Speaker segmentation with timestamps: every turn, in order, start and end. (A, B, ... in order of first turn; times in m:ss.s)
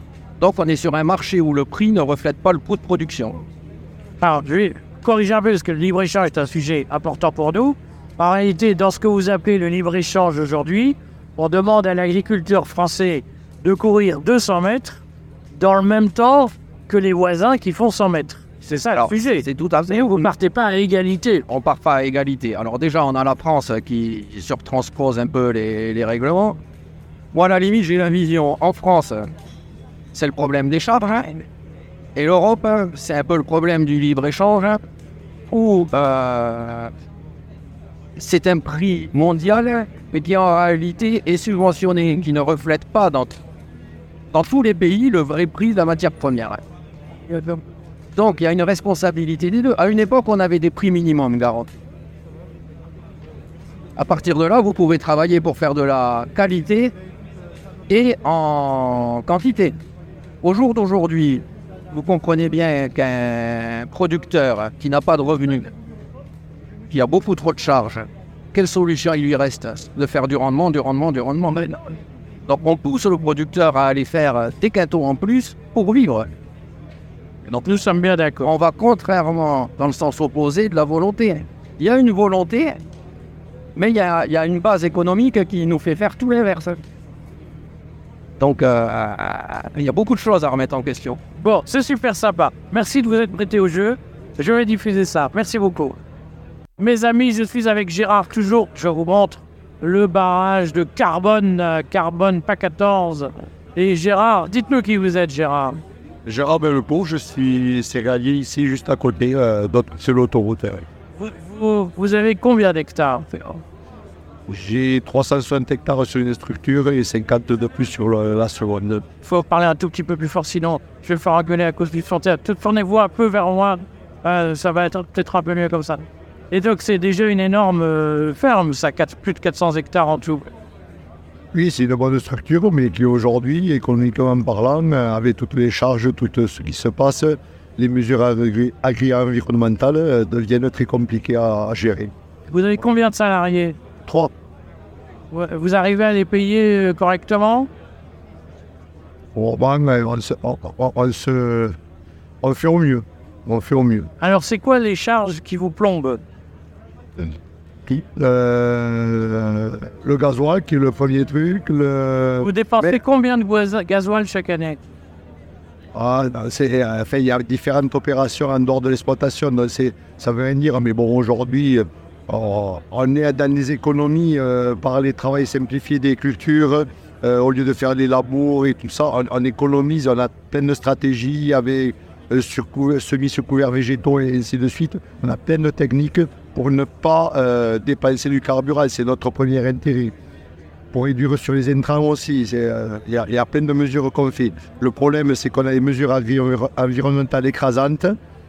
0:00.4-0:03.4 A
0:04.2-0:19.4 B
0:18.9-0:20.3 A
0:20.2-0:21.4 B
0:21.5-0:26.6 A
0:27.3-0:29.3 A
0:30.1-0:31.5 A
0:32.2-0:34.8 A
0:35.5-0:36.9 A
0:38.2-0:43.4 A
0:44.3-0:46.6 A
0:47.3-0:47.6 A
0:48.2-0:51.7 A
0:54.0-0:56.9 A
0:57.9-0:59.8 A
1:00.4-1:05.7 A
1:06.9-1:16.3 A
1:17.6-1:18.5 B
1:18.4-1:22.8 A
1:23.8-1:26.8 A
1:28.4-1:31.2 A
1:31.4-1:36.0 B
1:36.8-1:45.8 B
1:46.3-1:50.9 C
1:51.2-1:53.6 B
1:54.5-1:59.0 C
1:59.2-2:10.5 B
2:11.5-2:22.1 C
2:22.5-2:23.8 B
2:24.0-2:24.3 C
2:25.3-2:27.7 B
2:29.4-2:31.8 C
2:32.4-2:34.1 C
2:34.2-2:36.2 B
2:37.2-2:43.0 C
2:42.4-2:44.8 B
2:45.9-3:10.1 C
3:10.9-3:18.2 C